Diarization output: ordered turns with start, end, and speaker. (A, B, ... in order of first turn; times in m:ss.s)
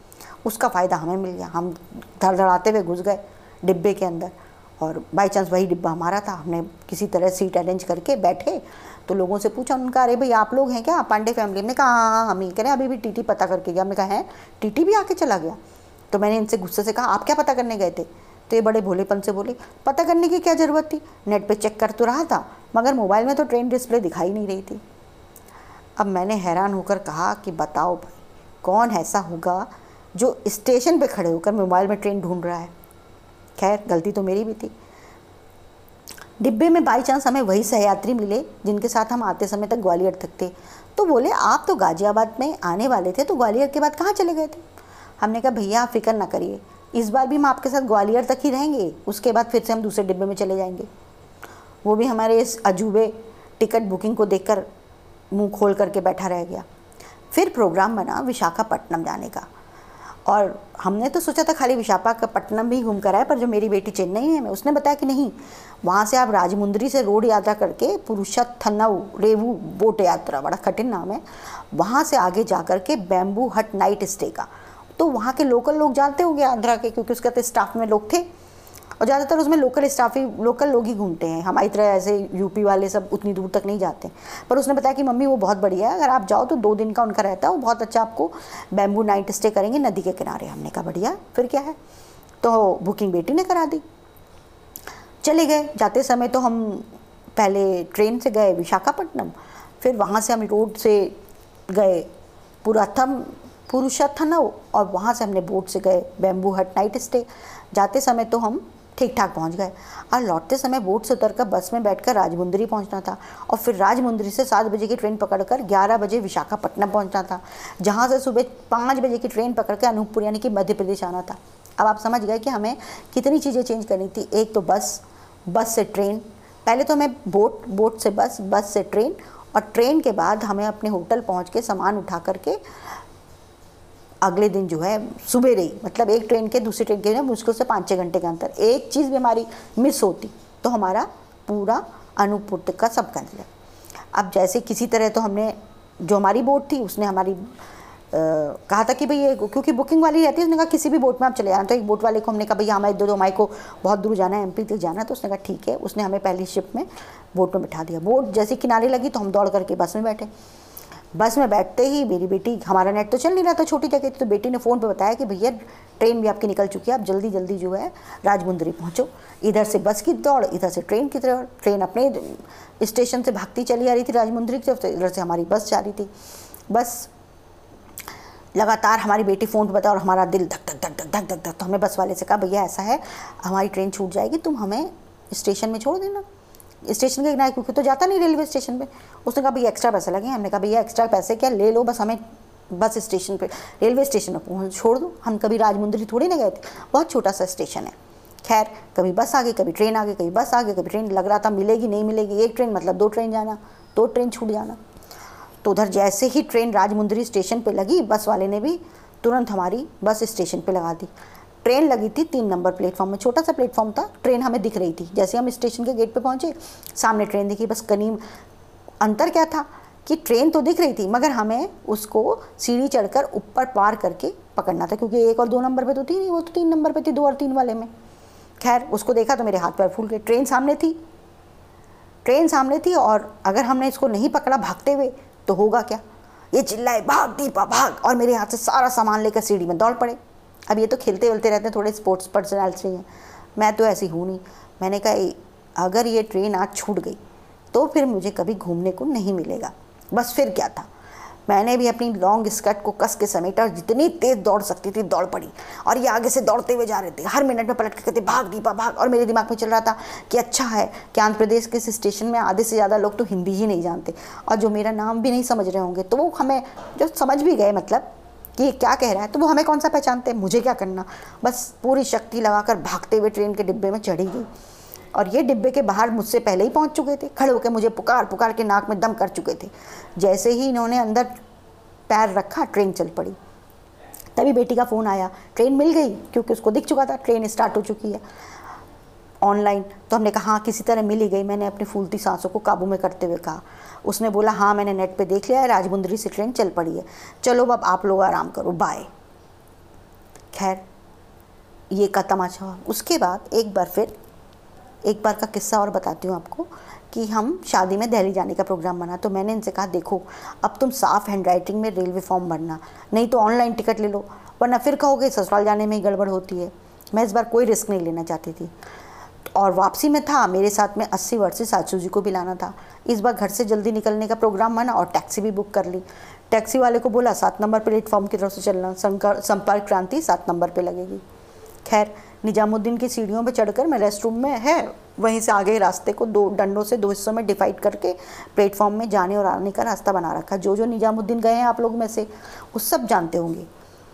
0:00.4-0:15.6 A
0:16.1-0:24.8 A
0:26.0-0:32.7 A
0:33.6-0:34.7 A
0:36.4-0:44.6 A
0:45.2-0:50.9 A
0:51.8-0:54.7 A
0:55.3-0:56.6 A
0:57.3-0:59.5 A
1:00.3-1:18.3 A
1:19.0-1:31.8 A
1:32.4-1:33.8 A
1:35.2-1:41.2 A
1:41.7-1:42.1 A
1:42.6-2:12.6 A
2:14.2-2:23.5 A
2:24.1-2:27.5 A
2:28.1-2:40.3 A
2:41.2-2:56.1 A
2:56.7-2:57.1 A
2:58.6-3:06.2 A
3:06.8-3:24.8 A
3:25.6-3:31.1 A
3:31.6-3:38.2 A
3:39.0-3:47.9 A
3:48.6-3:51.0 A
3:52.2-4:07.2 A
4:07.7-4:10.9 A
4:11.5-4:34.5 A
4:35.1-4:41.3 A
4:42.1-4:43.4 A
4:44.4-4:48.2 A
4:49.4-4:59.1 A
5:00.5-5:00.8 A
5:01.9-5:04.2 A
5:05.0-5:18.7 A
5:19.5-5:31.2 A
5:31.8-5:43.7 A